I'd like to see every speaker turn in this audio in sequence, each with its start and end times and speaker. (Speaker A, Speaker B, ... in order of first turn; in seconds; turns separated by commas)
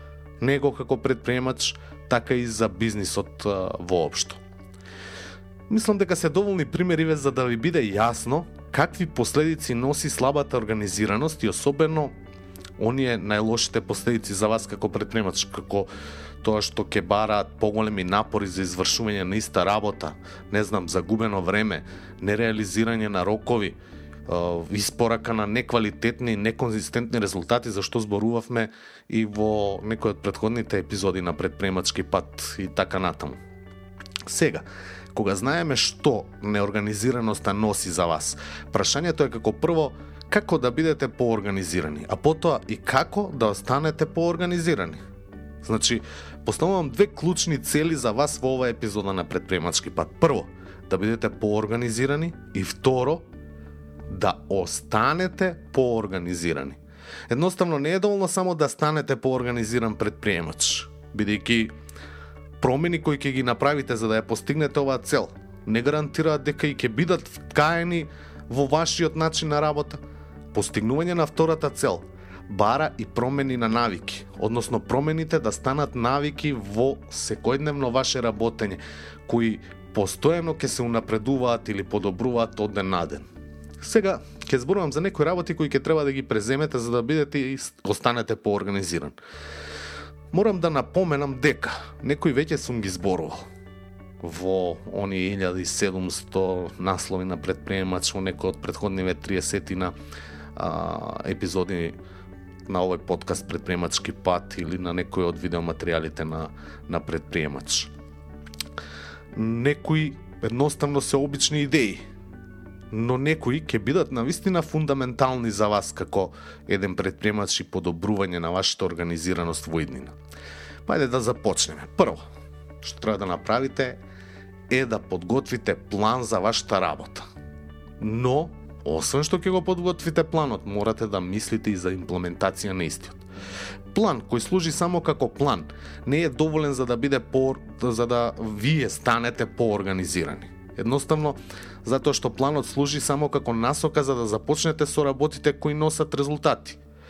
Speaker A: 0.4-4.4, Speaker A: 5.7-12.1, Speaker A: 12.8-15.9, Speaker A: 16.4-33.4, Speaker A: 34.2-45.0, Speaker A: 45.6-53.2, Speaker A: 54.1-61.7, Speaker A: 62.6-70.0, Speaker A: 70.5-83.3, Speaker A: 83.8-89.2, Speaker A: 90.3-93.4, Speaker A: 94.2-99.9, Speaker A: 100.5-102.0, Speaker A: 102.7-107.9, Speaker A: 109.3-112.0, Speaker A: 112.9-120.1, Speaker A: 120.9-122.2, Speaker A: 122.8-124.0, Speaker A: 124.7-127.2, Speaker A: 128.0-133.2, Speaker A: 133.9-146.8